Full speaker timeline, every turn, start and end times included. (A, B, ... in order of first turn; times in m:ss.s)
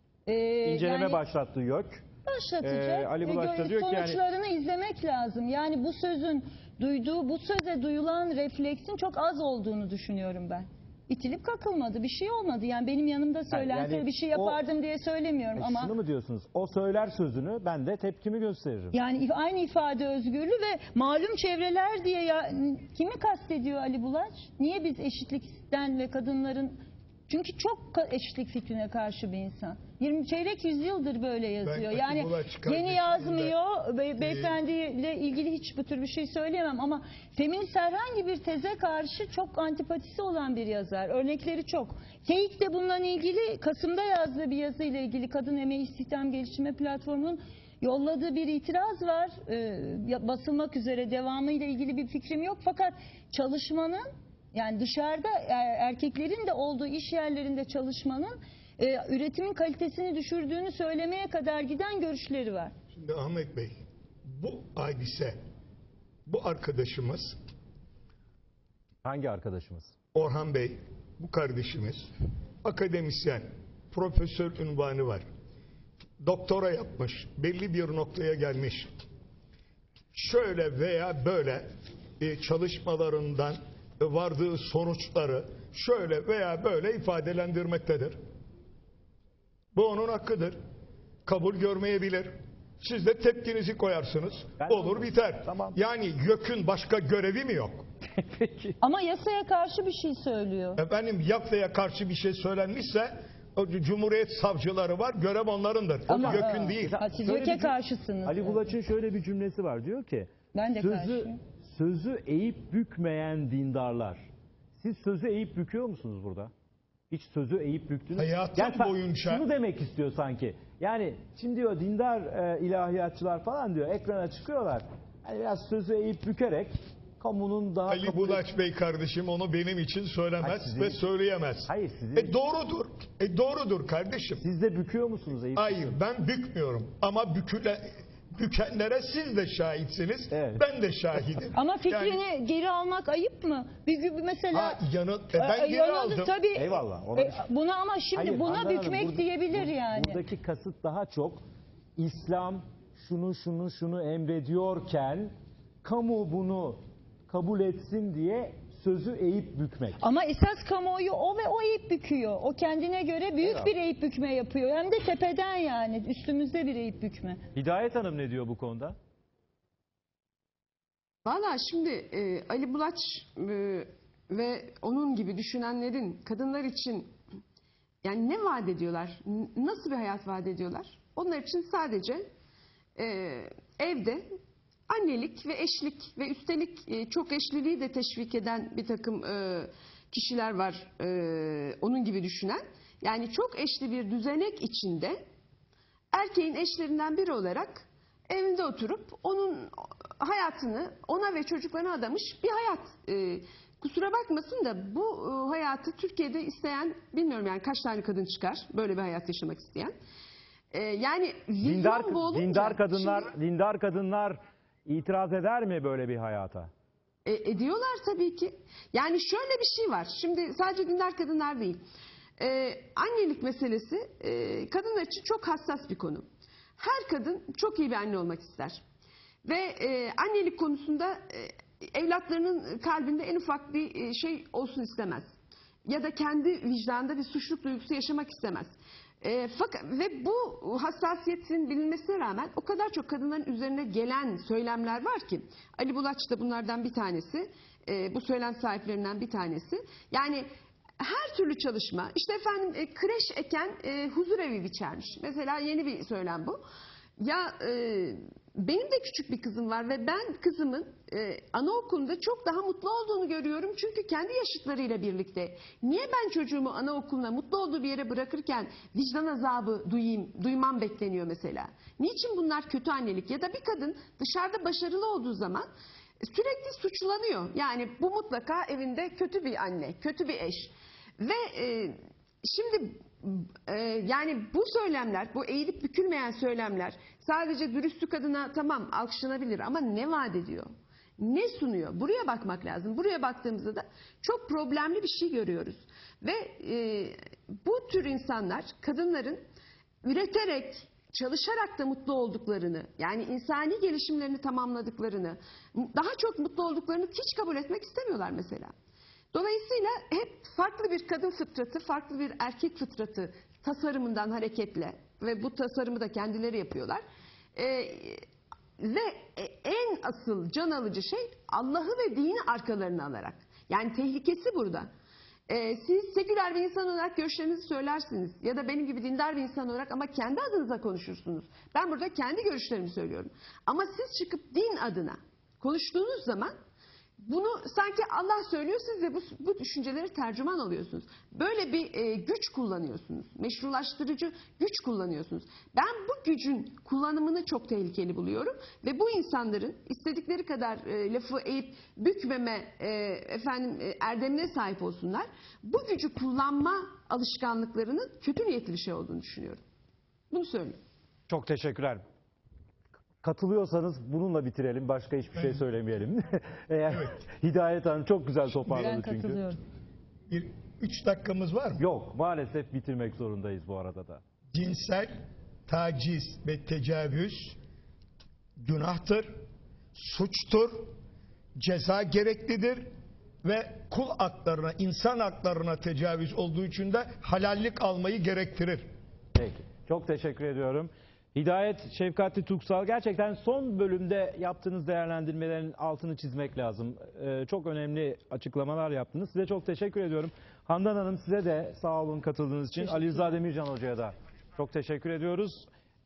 0:00.3-0:01.2 A
0:00.6-0:02.0 B
0:02.3-0:15.9 A
0:02.6-0:04.2 B
0:13.5-0:14.6 B
0:15.6-0:19.0 B
0:18.9-1:02.7 A
0:31.6-0:33.5 C
0:34.2-0:34.6 C
1:02.9-1:03.7 C
1:04.3-1:05.4 C
1:06.3-1:07.4 C
1:09.0-1:10.0 B
1:10.1-1:12.1 C
1:12.6-1:15.2 C
1:16.2-1:18.9 C
1:20.1-1:21.7 C
1:22.2-1:28.2 C
1:29.7-1:30.6 C
1:31.3-1:37.8 C
1:34.6-1:35.8 B
1:38.2-1:38.8 B
1:38.8-1:40.8 A
1:40.8-1:47.0 C
1:46.1-1:48.8 A
1:46.1-1:56.5 B
1:50.5-1:51.4 A
1:57.1-2:08.4 B
1:58.1-1:59.5 C
2:07.9-2:14.4 C
2:10.4-2:11.0 B
2:11.7-2:12.4 B
2:14.4-2:15.9 B
2:15.6-2:22.2 C
2:20.3-2:20.6 B
2:21.6-2:24.8 A
2:24.5-2:26.4 C
2:25.4-2:30.2 A
2:26.5-2:27.4 B
2:28.2-2:31.4 B
2:32.0-2:35.3 B
2:35.8-2:40.0 B
2:40.0-2:47.4 A
2:43.4-2:43.7 B
2:47.6-2:49.0 B
2:51.2-2:57.1 D
2:58.0-3:02.2 D
3:03.0-3:04.2 D
3:04.9-3:15.2 D
3:16.1-3:29.9 D
3:30.7-3:33.3 D
3:31.6-3:36.7 B
3:37.2-3:41.8 D
3:42.4-3:46.2 D
3:46.8-3:48.8 D
3:49.4-3:55.3 D
3:55.9-4:10.5 D
4:11.0-4:16.6 D
4:17.2-4:35.7 D
4:36.2-4:59.4 D
5:00.0-5:08.7 D
5:09.3-5:17.0 D
5:17.6-5:18.2 D
5:18.8-5:24.9 D
5:25.5-5:36.5 D
5:37.2-5:59.6 D
6:00.3-6:00.8 D
6:01.3-6:02.0 B
6:03.2-6:09.4 B
6:08.6-6:09.0 C
6:08.8-6:09.6 A
6:10.3-6:11.8 C
6:11.8-6:14.2 B
6:14.5-6:15.1 C
6:15.7-6:17.6 C
6:18.6-6:19.3 C
6:20.0-6:20.9 C
6:21.6-6:22.9 C
6:23.4-6:28.8 C
6:29.4-6:45.7 B